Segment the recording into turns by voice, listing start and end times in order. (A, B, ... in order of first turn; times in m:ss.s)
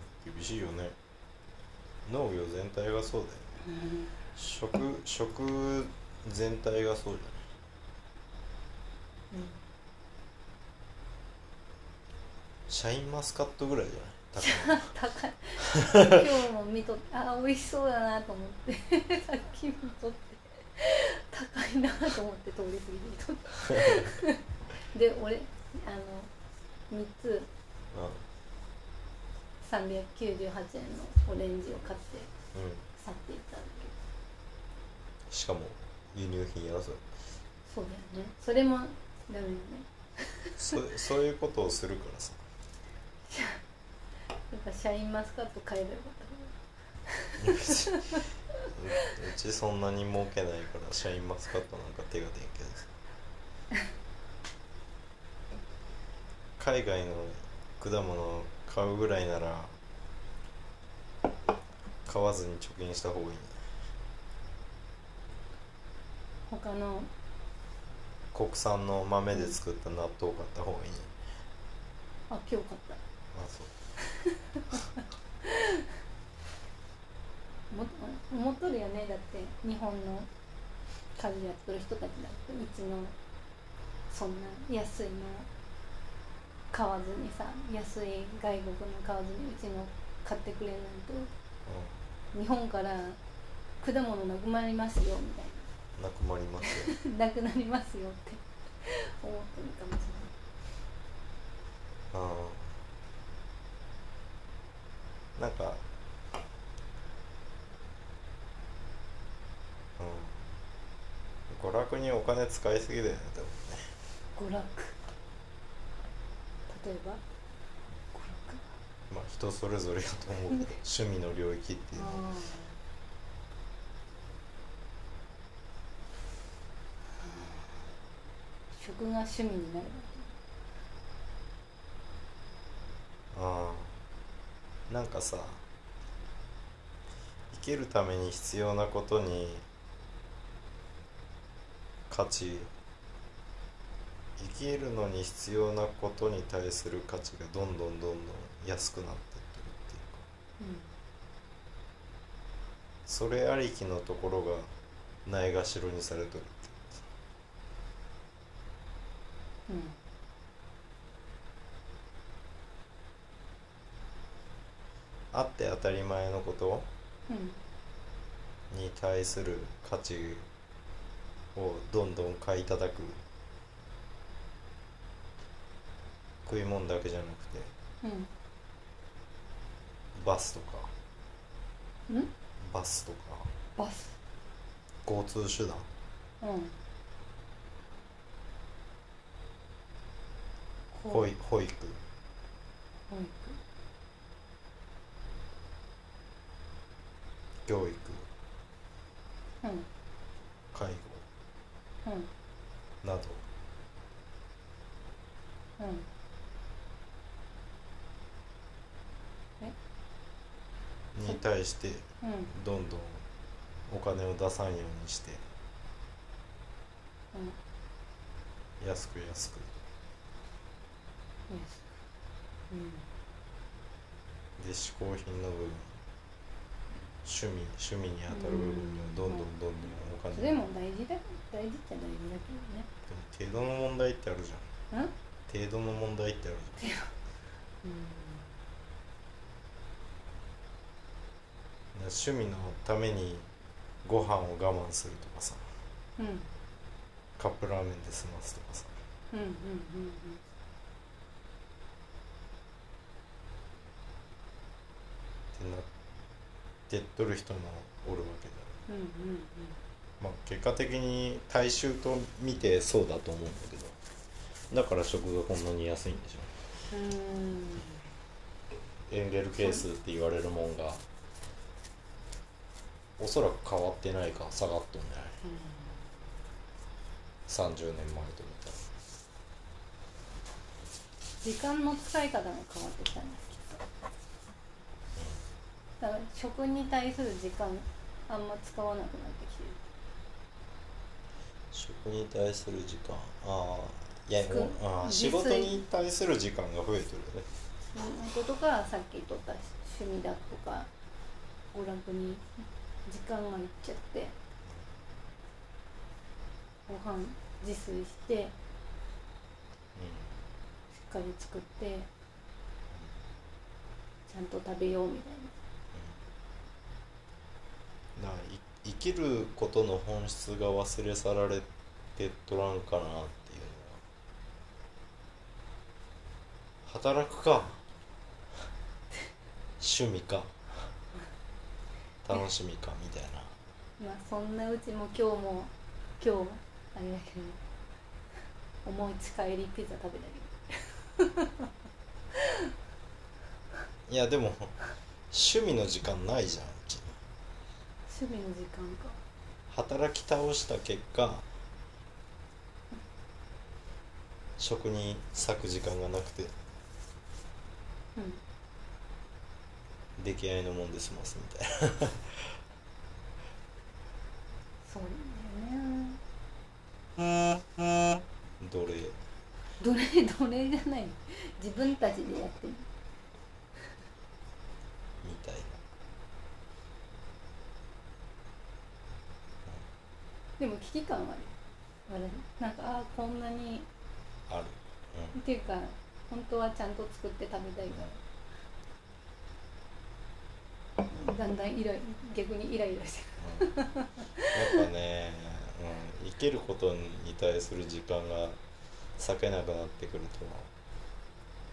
0:00.2-0:01.0 A
0:02.1-0:03.6 A
0:03.6-0:04.2 B
0:04.4-0:07.4 A
0:09.3-0:09.6 B
0:12.7-0:14.9 A
0:14.4-0:26.3 B
0:23.8-0:24.1 A
0:26.9-0:27.5 B
0:27.9-0:28.3 A
0:29.6-0:32.3 B
0:32.5-0:32.8 A
0:33.0-0:33.9 B
0:35.3-0:37.1 A
0:37.7-0:40.7 B
0:40.6-0:42.4 A
0:43.3-0:43.6 B
0:44.5-0:46.6 B
0:47.1-0:48.2 B
0:47.4-0:52.9 A
0:56.6-0:59.8 A
1:02.1-1:03.6 A
1:06.5-1:07.1 B
1:08.3-1:11.1 A
1:12.3-1:13.0 B
1:13.3-1:13.7 A
1:14.0-1:14.8 B
1:15.4-1:15.8 B
1:17.7-1:20.3 B
1:21.2-1:23.2 B
1:24.1-1:25.5 B
1:26.7-1:31.3 B
1:31.7-1:32.1 A
1:32.3-1:33.2 B
1:33.8-1:35.7 B
1:36.0-1:36.9 A
1:36.7-1:40.4 B
1:42.1-1:42.8 A
1:45.4-1:45.9 A
1:50.0-1:50.5 A
1:51.5-1:54.0 A
1:54.4-1:55.0 B
1:56.7-1:57.2 B
1:58.1-1:58.8 B
1:59.1-2:02.2 A
2:01.9-2:02.8 B
2:07.2-2:07.8 B
2:08.7-2:10.4 B
2:13.3-2:14.0 A
2:14.9-2:15.6 A
2:17.5-2:19.7 A
2:22.1-2:22.7 A
2:24.4-2:30.3 A
2:30.6-2:30.9 B
2:33.1-2:34.7 A
2:35.2-2:37.0 A
2:39.7-2:40.0 B
2:45.3-2:46.9 A
2:47.3-2:47.6 B
2:48.7-2:50.5 A
2:51.6-2:53.2 A
2:56.4-2:57.7 A
2:58.0-2:58.3 B
3:00.2-3:00.9 A
3:02.6-3:03.5 A
3:03.8-3:04.2 B
3:05.0-3:05.9 A
3:06.4-3:06.8 B
3:10.9-3:11.3 B
3:11.1-3:12.0 A
3:13.1-3:13.6 B
3:17.6-3:18.3 A
3:19.6-3:19.9 B
3:20.7-3:21.2 A
3:22.0-3:22.3 B
3:23.0-3:23.4 A
3:25.8-3:26.1 B
3:31.1-3:33.2 A
3:32.2-3:32.5 B
3:33.9-3:35.4 A
3:38.8-3:39.7 A
3:41.5-3:41.9 B
3:42.7-3:43.1 B
3:44.6-3:46.0 A
3:47.2-3:50.6 A
3:48.3-3:49.5 B
3:50.3-3:52.9 B
3:53.1-3:54.7 A
3:55.5-3:56.8 A
3:56.8-3:57.1 B
3:57.8-3:58.5 B
4:01.9-4:03.5 A
4:04.0-4:05.6 A
4:06.2-4:06.5 B
4:07.4-4:08.9 A
4:09.3-4:10.4 B
4:15.5-4:15.9 A
4:16.9-4:18.8 A
4:18.9-4:19.8 B
4:20.2-4:24.0 A
4:24.7-4:26.6 A
4:26.9-4:28.0 B
4:29.1-4:31.0 A
4:33.2-4:35.4 A
4:35.4-4:36.0 B
4:37.5-4:38.8 A
4:41.4-4:43.8 B
4:46.0-4:49.8 B
4:51.7-4:57.5 A
4:54.5-4:55.8 B
4:57.9-5:00.9 B
5:01.7-5:04.4 B
5:06.9-5:08.5 B
5:10.0-5:10.4 A
5:10.9-5:12.1 B
5:14.3-5:15.5 B
5:18.2-5:24.0 A
5:26.8-5:27.8 A
5:29.8-5:30.9 A
5:32.2-5:33.6 A
5:34.0-5:37.6 B
5:38.8-5:41.7 B
5:44.1-5:44.8 A
5:45.3-5:47.1 A
5:48.1-5:49.2 B
5:49.7-5:51.5 A
5:54.6-5:56.5 A
6:00.2-6:02.6 A
6:04.8-6:06.2 B
6:08.6-6:09.2 A
6:09.8-6:12.9 B
6:15.2-6:15.8 A
6:20.6-6:21.5 B
6:22.1-6:23.9 B
6:24.5-6:25.4 A
6:25.3-6:28.2 B
6:31.0-6:34.8 B
6:33.4-6:33.7 A
6:34.5-6:38.6 A
6:39.2-6:40.7 A